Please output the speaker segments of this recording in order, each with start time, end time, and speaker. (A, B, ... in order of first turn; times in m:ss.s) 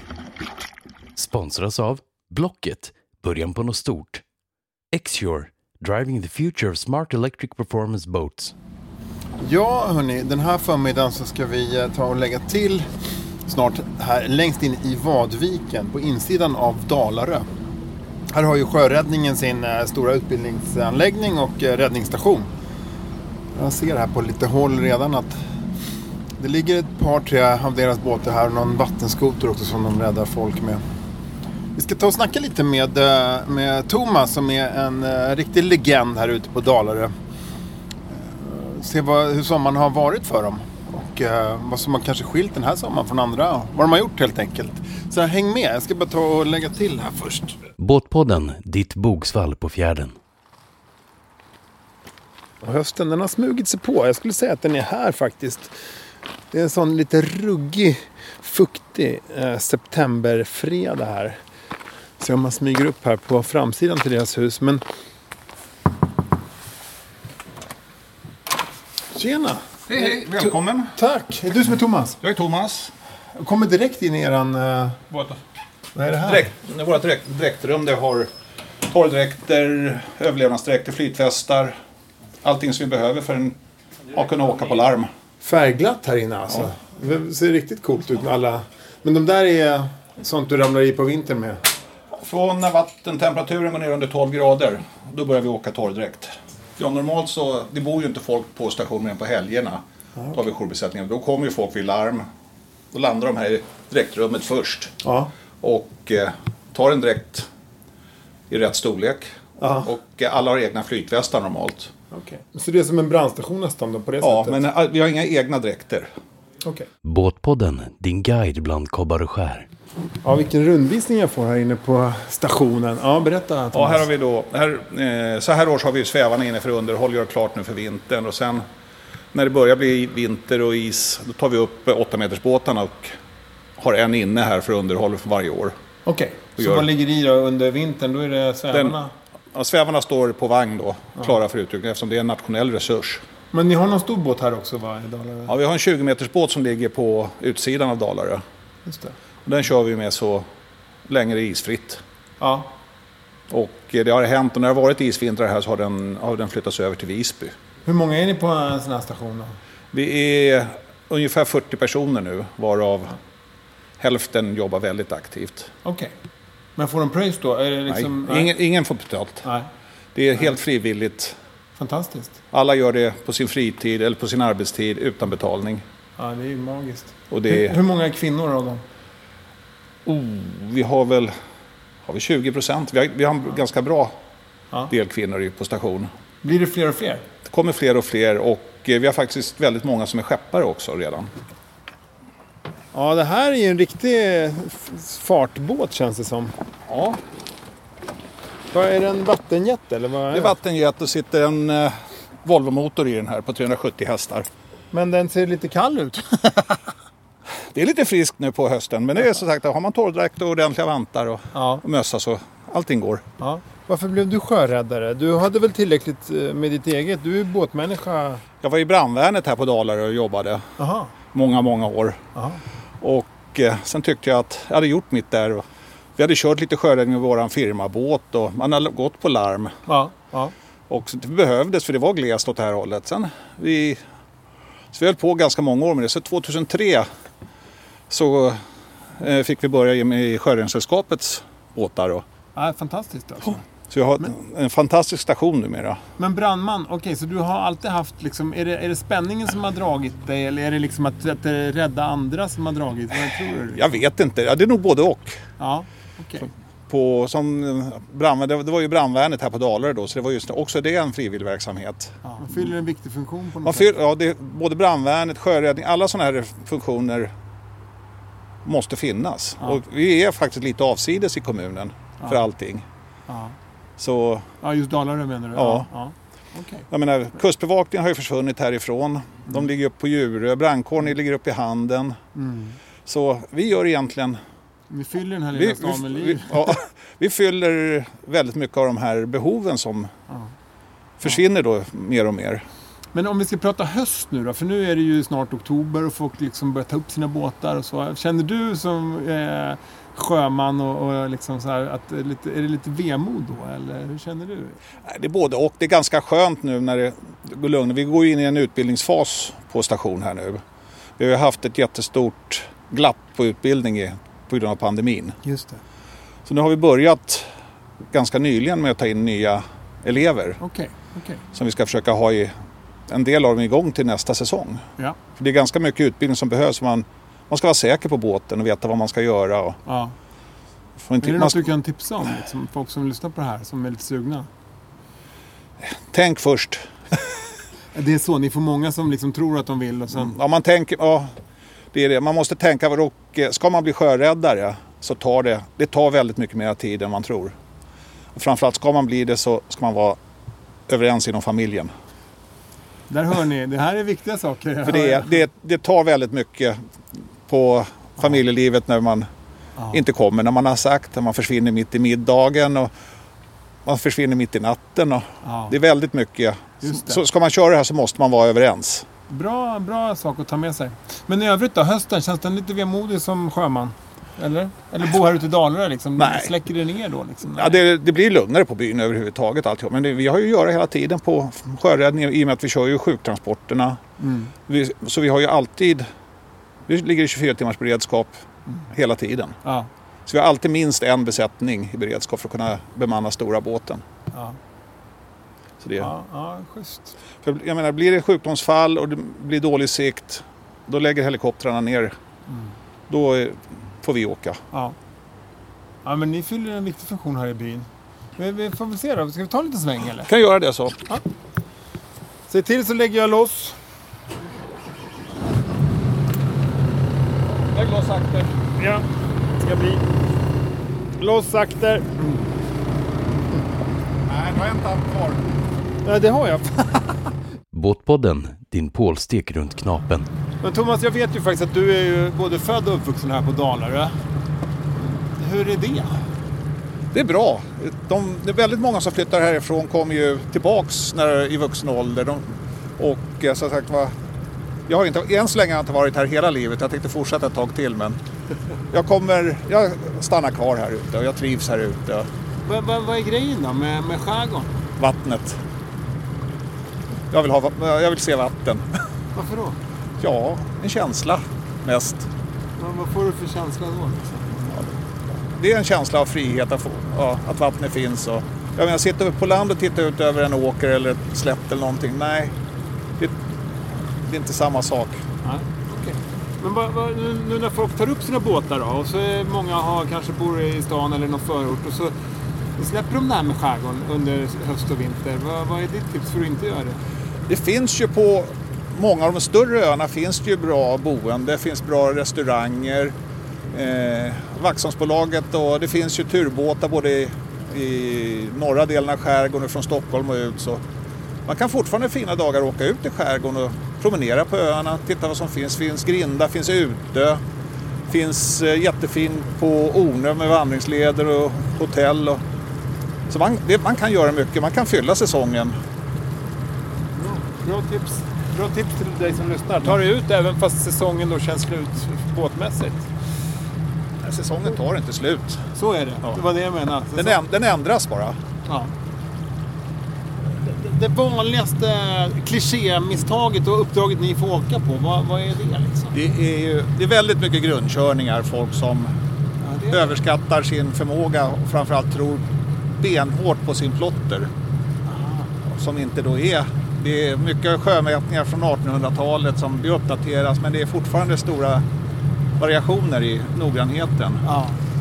0:01.2-0:04.2 A
0:04.9-0:08.5 A
0:09.4-0:12.8 B
0:13.4-0:17.4 B
0:18.3-0:22.5 B
0:23.5-0:25.4 B
0:26.4-0:30.8 B
0:31.7-0:37.1 B
0:38.1-0:47.6 B
0:47.8-0:50.2 A
0:52.6-0:55.7 B
0:56.5-1:01.4 B
1:02.2-1:04.8 B
1:09.1-1:12.2 B
1:09.9-1:10.9 C
1:12.2-1:12.9 C
1:13.3-1:15.1 B
1:15.1-1:15.4 C
1:15.9-1:16.5 B
1:16.2-1:18.3 C
1:18.8-1:21.8 C
1:22.4-1:23.6 C
1:24.1-1:25.1 C
1:25.4-1:31.6 B
1:32.1-1:39.8 C
1:40.3-1:42.3 C
1:42.9-1:44.9 C
1:45.0-1:45.3 B
1:45.6-1:47.5 C
1:48.5-1:51.9 C
1:49.6-1:49.9 B
1:52.1-1:54.6 B
1:54.2-1:56.1 C
1:56.6-1:56.9 B
1:57.0-1:59.7 A
2:00.2-2:04.0 B
2:03.7-2:08.6 C
2:09.3-2:13.2 C
2:13.8-2:15.7 C
2:16.0-2:19.1 B
2:16.6-2:16.9 C
2:18.7-2:19.0 C
2:19.5-2:23.2 C
2:23.5-2:25.5 B
2:25.5-2:28.4 C
2:28.8-2:29.1 B
2:29.4-2:30.4 C
2:31.0-2:32.0 C
2:32.4-2:32.7 B
2:33.5-2:37.6 C
2:37.8-2:39.6 B
2:39.9-2:43.2 C
2:44.0-2:45.7 C
2:45.8-2:46.1 B
2:46.8-2:48.5 B
2:47.9-2:49.4 C
2:50.1-2:51.4 C
2:51.8-2:52.4 B
2:52.5-2:55.8 C
2:56.2-2:58.8 B
2:57.3-2:57.8 C
3:00.0-3:01.3 C
3:02.0-3:04.2 C
3:04.9-3:06.1 C
3:06.4-3:07.2 B
3:07.4-3:11.3 C
3:12.9-3:16.5 B
3:16.9-3:17.2 C
3:18.7-3:20.5 B
3:20.3-3:24.5 C
3:24.9-3:26.7 B
3:27.7-3:33.2 C
3:31.5-3:31.8 B
3:33.4-3:38.4 B
3:38.6-3:40.8 C
3:40.8-3:41.1 B
3:41.3-3:42.2 C
3:42.3-3:42.6 B
3:43.0-3:45.6 C
3:46.2-3:49.8 C
3:49.9-3:50.5 B
3:50.9-3:54.0 C
3:54.9-3:57.1 C
3:58.1-3:58.6 C
3:59.2-4:02.2 C
4:02.5-4:03.6 B
4:03.9-4:06.0 C
4:06.2-4:13.9 B
4:13.7-4:15.4 C
4:15.6-4:16.5 B
4:16.9-4:22.2 C
4:22.2-4:23.9 B
4:23.6-4:27.3 C
4:28.6-4:32.8 C
4:33.3-4:33.6 B
4:34.0-4:34.5 C
4:34.6-4:36.8 B
4:35.5-4:35.9 C
4:36.9-4:42.2 C
4:42.3-4:42.8 B
4:43.0-4:44.4 C
4:44.9-4:46.8 B
4:45.5-4:50.1 C
4:51.2-4:52.6 C
4:53.1-5:04.8 B
5:05.0-5:10.6 C
5:11.2-5:15.4 C
5:15.4-5:15.8 B
5:16.4-5:17.5 C
5:18.1-5:20.6 C
5:20.6-5:21.4 B
5:21.5-5:22.5 C
5:23.1-5:24.8 C
5:25.4-5:29.8 C
5:29.8-5:30.1 B
5:31.0-5:31.7 C
5:31.2-5:34.5 B
5:35.8-5:37.4 C
5:37.9-5:40.3 B
5:40.1-5:41.4 C
5:41.9-5:47.5 C
5:48.3-5:50.2 C
5:50.9-5:51.9 C
5:53.1-5:55.5 B
5:54.8-5:56.8 C
5:57.5-5:59.3 C
5:59.8-6:00.0 B
5:59.9-6:02.9 C
6:03.8-6:09.1 C
6:05.4-6:05.8 B
6:06.8-6:07.2 B
6:09.3-6:17.8 B
6:16.2-6:16.5 C
6:17.5-6:24.0 C
6:24.2-6:24.5 B
6:24.7-6:26.0 C
6:26.9-6:29.6 C
6:29.6-6:29.9 B
6:30.2-6:34.0 C
6:34.3-6:34.6 B
6:35.8-6:36.1 C
6:36.0-6:37.2 B
6:37.4-6:42.1 C
6:42.5-6:42.7 B
6:43.1-6:44.6 C
6:46.0-6:50.3 B
6:50.2-6:51.0 C
6:52.5-6:53.8 B
6:57.7-6:58.5 C
6:58.8-6:59.0 B
6:59.6-7:00.0 B
7:01.2-7:02.4 B
7:04.3-7:05.4 C
7:06.0-7:07.0 B
7:07.7-7:10.3 A
7:10.6-7:14.1 B
7:15.0-7:16.2 B
7:17.1-7:24.1 C
7:24.9-7:28.2 C
7:28.9-7:32.3 C
7:32.6-7:34.7 B
7:35.0-7:35.6 C
7:37.3-7:39.0 C
7:39.3-7:39.8 B
7:40.2-7:42.3 C
7:42.8-7:44.7 B
7:45.4-7:52.6 C
7:54.2-7:55.2 C
7:55.4-8:02.1 B
8:02.8-8:07.0 B
8:07.5-8:13.1 C
8:13.7-8:20.8 C
8:21.4-8:27.4 C
8:28.1-8:32.4 C
8:33.3-8:35.8 C
8:37.2-8:43.1 B
8:44.2-8:45.6 C
8:45.7-8:47.4 B
8:47.2-8:48.4 C
8:48.6-8:48.9 B
8:50.4-8:56.2 B
8:56.1-8:59.1 C
8:59.6-9:00.2 B
8:59.9-9:04.5 C
9:05.0-9:05.5 B
9:05.6-9:11.8 C
9:12.6-9:14.4 C
9:14.4-9:14.8 B